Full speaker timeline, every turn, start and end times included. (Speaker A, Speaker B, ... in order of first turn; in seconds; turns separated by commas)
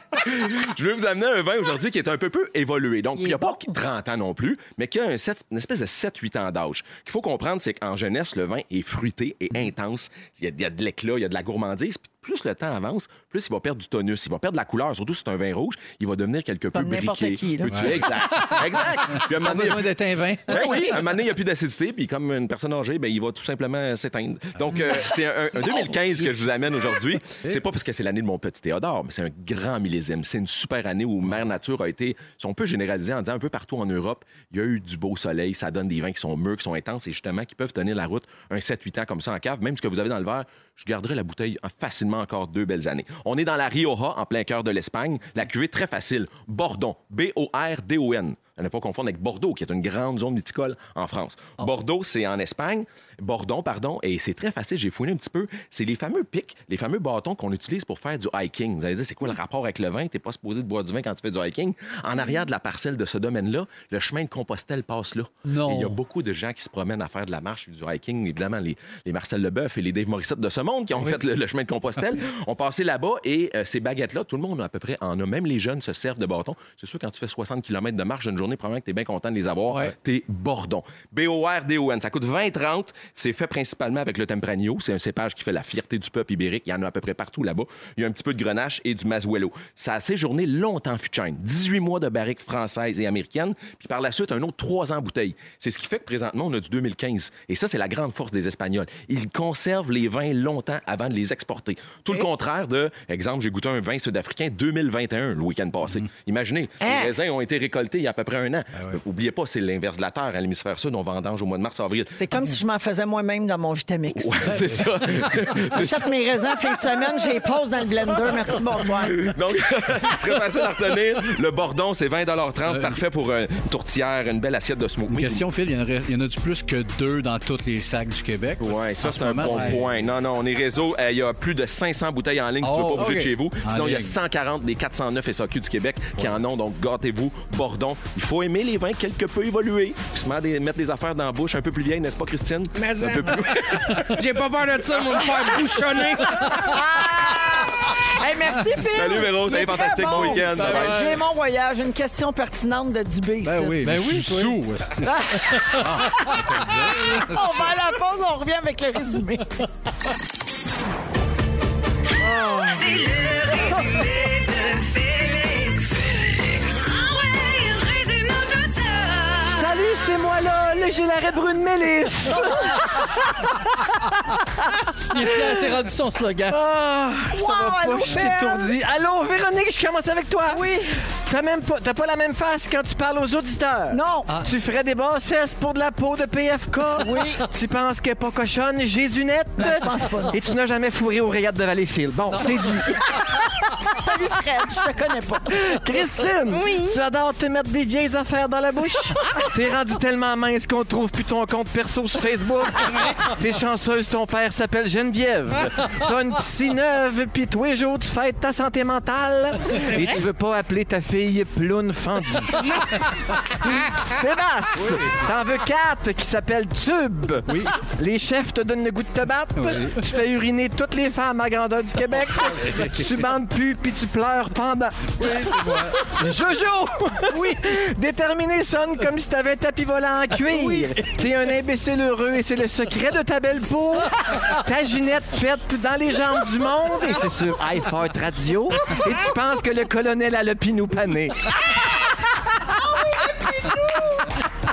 Speaker A: 0.2-19.9, Speaker B: 3.2-3.6, Speaker B: 16.7-18.2, Speaker C: 18.3-18.6, Speaker C: 19.2-20.9, Speaker A: 20.5-112.2, Speaker B: 20.5-20.9, Speaker C: 65.5-66.0, Speaker C: 79.7-80.0, Speaker B: 106.8-107.1, Speaker B: 112.2-114.6, Speaker A: 114.1-116.1, Speaker B: 115.7-119.3, Speaker A: 119.1-125.5, Speaker D: 122.7-123.0, Speaker D: 125.1-129.9, Speaker A: 128.6-144.2, Speaker C: 129.4-129.8, Speaker C: 132.6-133.3, Speaker D: 132.9-134.2, Speaker E: 142.7-146.8, Speaker B: 146.4-153.8, Speaker A: 148.9-151.0, Speaker C: 150.1-151.2, Speaker D: 153.4-157.8, Speaker C: 153.8-154.6, Speaker B: 155.0-156.4, Speaker C: 155.4-156.4, Speaker B: 157.1-159.7, Speaker F: 162.2-163.0, Speaker G: 162.6-169.6, Speaker F: 169.4-175.6, Speaker B: 172.3-172.8, Speaker C: 175.1-176.6, Speaker F: 176.5-180.7, Speaker B: 177.3-178.8, Speaker B: 180.5-181.0, Speaker F: 181.3-193.5, Speaker B: 183.9-184.3, Speaker B: 187.0-187.5, Speaker B: 189.6-190.4, Speaker C: 192.3-192.8, Speaker B: 192.4-193.3, Speaker B: 193.9-195.6, Speaker F: 195.5-212.7, Speaker E: 196.5-197.0, Speaker E: 209.7-210.3, Speaker E: 212.6-213.1, Speaker F: 213.2-242.1, Speaker D: 214.7-215.3, Speaker D: 217.5-217.8, Speaker D: 219.6-220.1, Speaker D: 222.6-222.9, Speaker D: 225.2-226.0, Speaker C: 225.3-225.8, Speaker C: 230.5-230.9, Speaker F: 242.8-244.4